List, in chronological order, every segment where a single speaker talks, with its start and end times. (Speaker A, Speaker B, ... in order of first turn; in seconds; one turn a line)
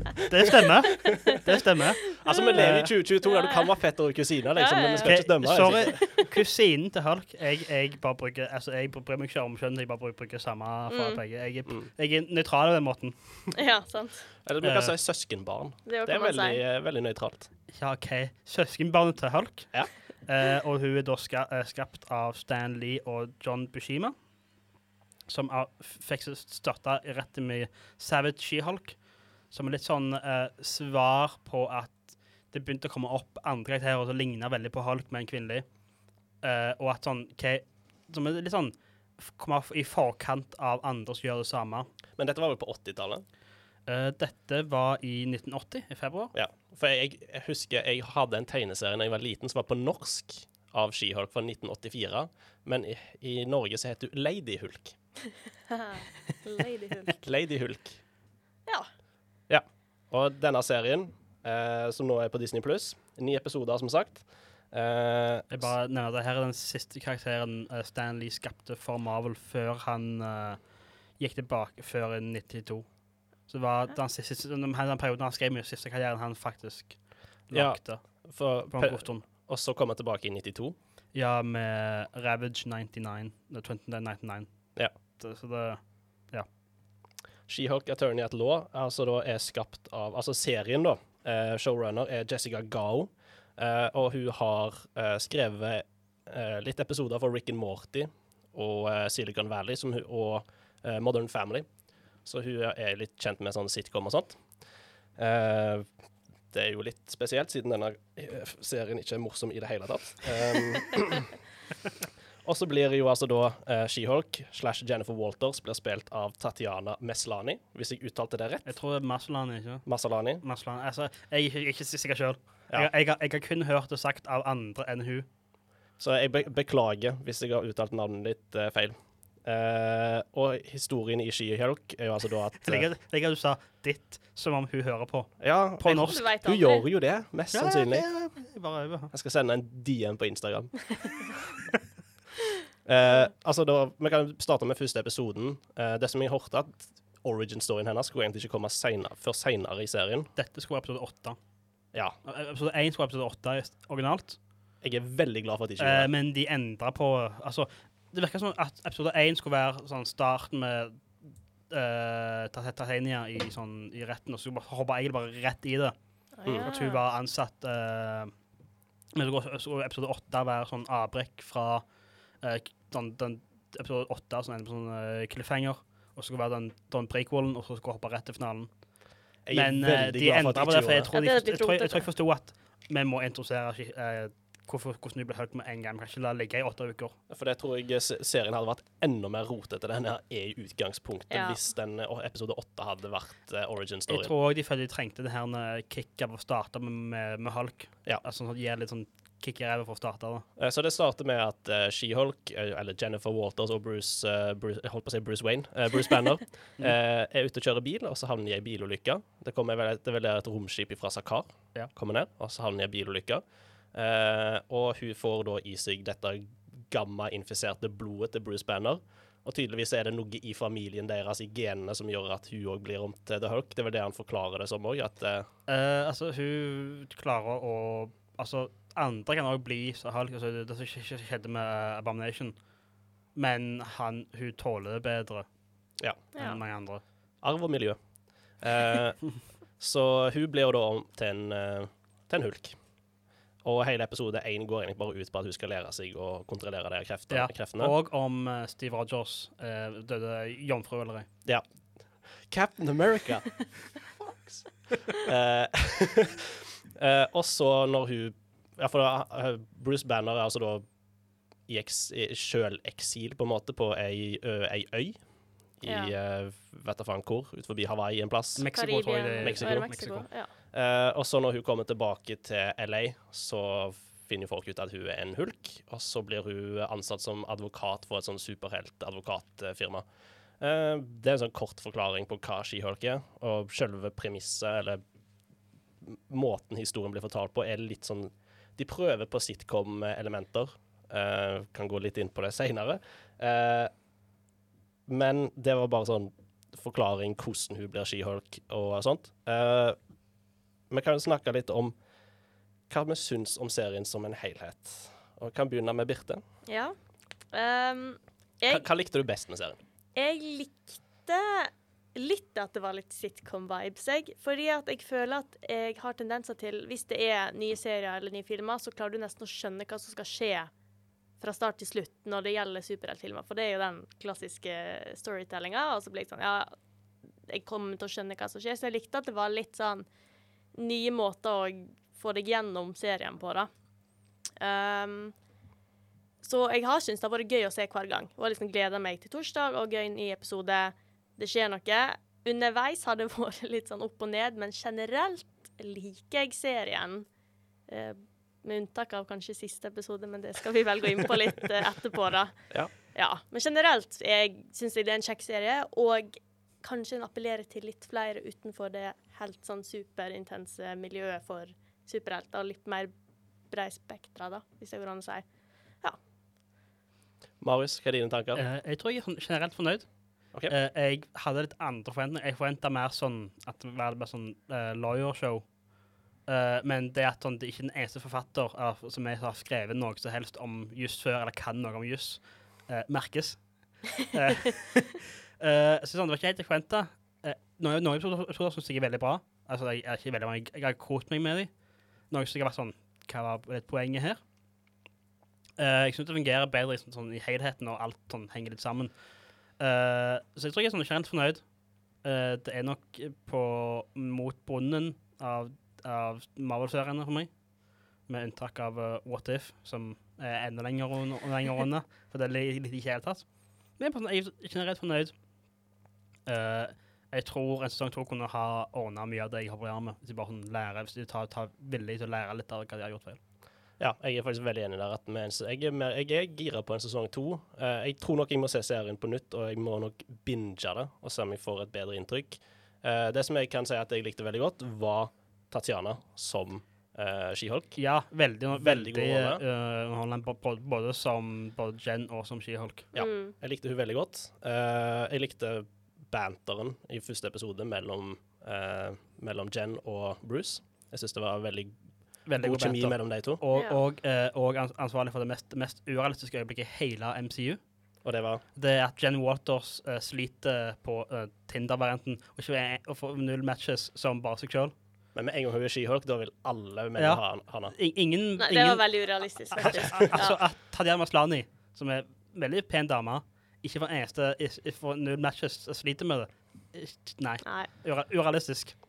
Speaker A: 0.3-2.9
Speaker B: 2.2-6.2
Speaker C: 2.2-2.7
Speaker C: 3.2-3.6
Speaker C: 4.5-6.3
Speaker A: 5.0-13.4
Speaker C: 10.9-11.2
Speaker C: 13.5-14.3
Speaker B: 14.4-17.5
Speaker A: 14.6-14.9
Speaker C: 15.8-16.6
Speaker A: 17.7-24.1
Speaker A: 25.3-35.7
Speaker A: 36.4-41.9
Speaker B: 42.2-43.2
Speaker A: 43.9-46.3
Speaker B: 46.3-55.0
Speaker C: 55.7-57.1
Speaker B: 57.2-58.0
Speaker B: 59.5-65.7
Speaker A: 65.5-79.2
Speaker B: 77.5-80.7
Speaker A: 81.1-86.5
Speaker B: 87.5-101.7
Speaker B: 102.2-104.5
Speaker B: 105.2-105.9
Speaker B: 106.5-111.4
Speaker B: 112.4-118.7
Speaker A: 118.6-119.9
Speaker B: 119.8-120.4
Speaker A: 120.4-125.2
Speaker B: 126.0-132.9
Speaker A: 132.6-136.2
Speaker B: 135.4-138.1
Speaker C: 136.0-136.8
Speaker A: 137.5-139.1
Speaker B: 139.1-140.9
Speaker B: 142.8-150.3
Speaker A: 150.3-151.4
Speaker A: 152.2-154.4
Speaker B: 154.8-156.1
Speaker A: 155.8-168.3
Speaker C: 166.4-167.0
Speaker A: 169.2-171.9
Speaker A: 172.4-178.8
Speaker B: 179.4-181.1
Speaker A: 179.5-187.1
Speaker C: 181.1-182.1
Speaker B: 187.3-194.3
Speaker C: 191.3-191.6
Speaker A: 194.1-200.4
Speaker B: 200.6-213.4
Speaker B: 213.9-225.5
Speaker A: 225.7-232.6
Speaker A: 233.3-235.5
Speaker C: 236.3-236.6
Speaker A: 236.3-237.0
Speaker B: 237.4-238.0
Speaker B: 238.5-242.8
Speaker B: 243.6-247.9
Speaker A: 247.3-251.3
Speaker B: 252.2-253.8
Speaker B: 254.3-260.9
Speaker B: 261.7-265.2
Speaker B: 265.8-268.7
Speaker C: 265.9-266.1
Speaker A: 268.6-270.2
Speaker C: 268.7-270.5
Speaker B: 269.4-280.0
Speaker B: 280.6-285.0
Speaker B: 286.0-293.9
Speaker B: 295.1-300.0
Speaker B: 300.9-301.9
Speaker B: 302.9-306.4
Speaker C: 306.6-306.9
Speaker C: 307.5-308.9
Speaker B: 308.7-309.8
Speaker C: 310.1-320.7
Speaker C: 321.4-326.8
Speaker C: 327.4-330.1
Speaker C: 330.7-333.7
Speaker C: 334.6-335.4
Speaker C: 336.4-347.3
Speaker C: 347.9-363.1
Speaker C: 363.7-365.4
Speaker B: 367.6-368.6
Speaker A: 368.5-391.7
Speaker A: 392.3-394.4
Speaker A: 395.8-415.4
Speaker A: 416.4-423.4
Speaker B: 424.0-438.0
Speaker A: 437.9-443.1
Speaker B: 438.7-439.6
Speaker B: 443.1-451.9
Speaker C: 443.1-443.5
Speaker A: 452.4-457.8
Speaker B: 452.6-453.6
Speaker C: 453.7-454.0
Speaker B: 458.2-458.6
Speaker A: 458.8-464.9
Speaker B: 465.3-467.9
Speaker A: 467.2-478.9
Speaker C: 468.6-470.6
Speaker C: 477.6-477.9